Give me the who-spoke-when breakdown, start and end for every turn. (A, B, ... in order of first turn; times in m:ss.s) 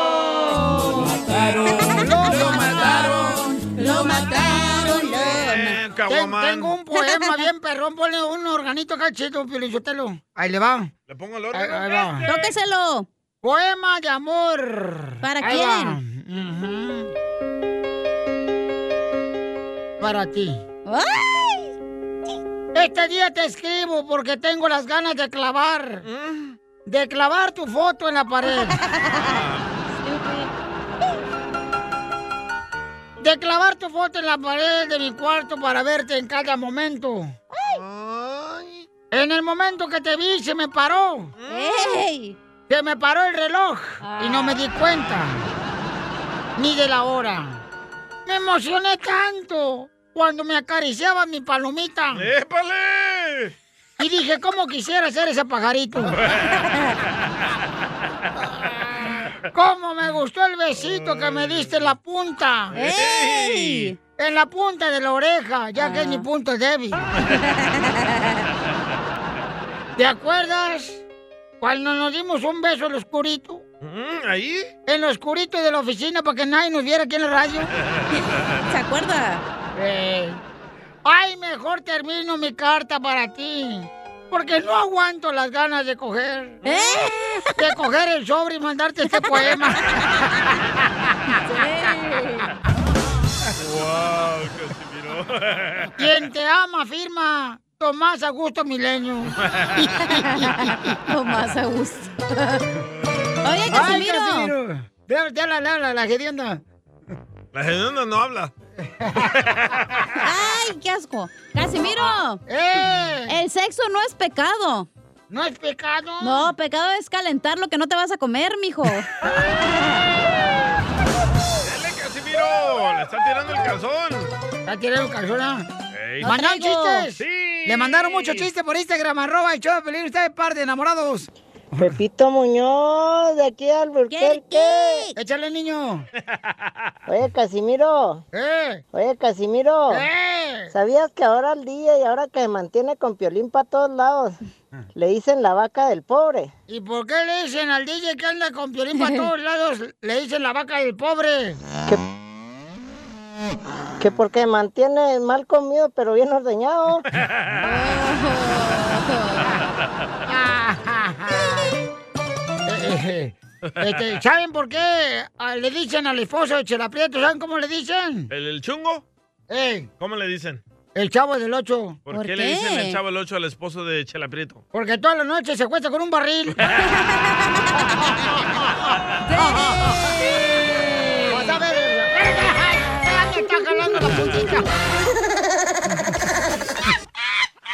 0:01.7-0:05.8 A
0:01.8-0:03.5 B
0:05.1-0:06.8 C
0:06.1-0:10.9 B
0:06.9-0:07.5 A
0:11.1-0:12.5 C
0:11.5-0:12.2 B
0:12.3-0:13.1 A
0:13.4-0:17.1 B
0:15.2-0:16.0 A
0:20.0-0:20.6 B
0:20.9-0:21.6 A
0:22.7-0:26.0 B
0:26.0-0:26.6 C
0:26.9-0:28.8 B
0:29.0-0:29.4 A
0:29.1-0:29.7 C
0:30.0-0:30.5 A
0:33.2-0:37.4 B
0:37.5-0:37.8 A
0:37.7-0:38.8 C
0:39.1-0:41.3 B
0:41.4-0:41.8 C
0:41.5-0:42.4 A
0:42.7-0:45.5 B
0:44.0-0:44.6 A
0:46.6-0:47.6 B
0:48.3-0:52.3 B
0:52.1-0:53.5 C
0:54.0-0:56.2 B
0:56.1-0:56.6 C
0:59.5-1:02.8 B
1:01.0-1:01.6 C
1:02.7-1:03.9 C
1:02.7-1:04.0 A
1:04.2-1:07.1 B
1:05.8-1:06.2 A
1:07.4-1:08.4 A
1:10.0-1:11.0 B
1:11.6-1:13.6 B
1:13.8-1:14.7 C
1:14.9-1:17.7 B
1:18.1-1:19.4 A
1:19.8-1:20.4 B
1:21.0-1:26.6 B
1:26.6-1:27.5 A
1:27.6-1:30.1 B
1:29.2-1:29.4 A
1:31.4-1:32.5 A
1:33.6-1:35.9 C
1:36.0-1:40.6 B
1:39.4-1:39.9 C
1:40.2-1:42.7 A
1:43.4-1:44.5 A
1:43.7-1:46.6 B
1:47.5-1:48.5 C
1:48.8-1:49.4 B
1:49.4-1:50.0 C
1:50.2-1:52.4 A
1:52.5-1:53.4 B
1:53.3-1:54.9 A
1:55.3-1:56.5 B
1:56.2-1:59.1 A
2:01.6-2:04.3 C
2:04.7-2:05.7 B
2:05.9-2:06.3 C
2:06.2-2:07.1 A
2:06.2-2:12.0 B
2:07.2-2:08.5 C
2:11.8-2:14.9 D
2:14.1-2:15.2 A
2:15.1-2:16.1 B
2:16.3-2:16.7 C
2:17.1-2:18.2 D
2:18.3-2:18.8 B
2:18.9-2:20.0 D
2:19.9-2:20.7 B
2:20.7-2:24.4 D
2:25.0-2:26.5 D
2:26.7-2:31.6 B
2:28.9-2:29.3 A
2:34.0-2:37.0 D
2:37.2-2:37.6 C
2:37.6-2:39.6 A
2:40.3-2:41.8 B
2:42.7-2:48.3 B
2:48.3-2:49.0 C
2:49.5-2:49.9 B
2:50.0-2:50.6 C
2:51.0-2:52.0 B
2:52.1-2:54.6 C
2:52.1-2:53.0 A
2:54.7-2:56.6 B
2:59.3-2:59.9 A
3:00.8-3:01.5 A
3:01.3-3:04.7 B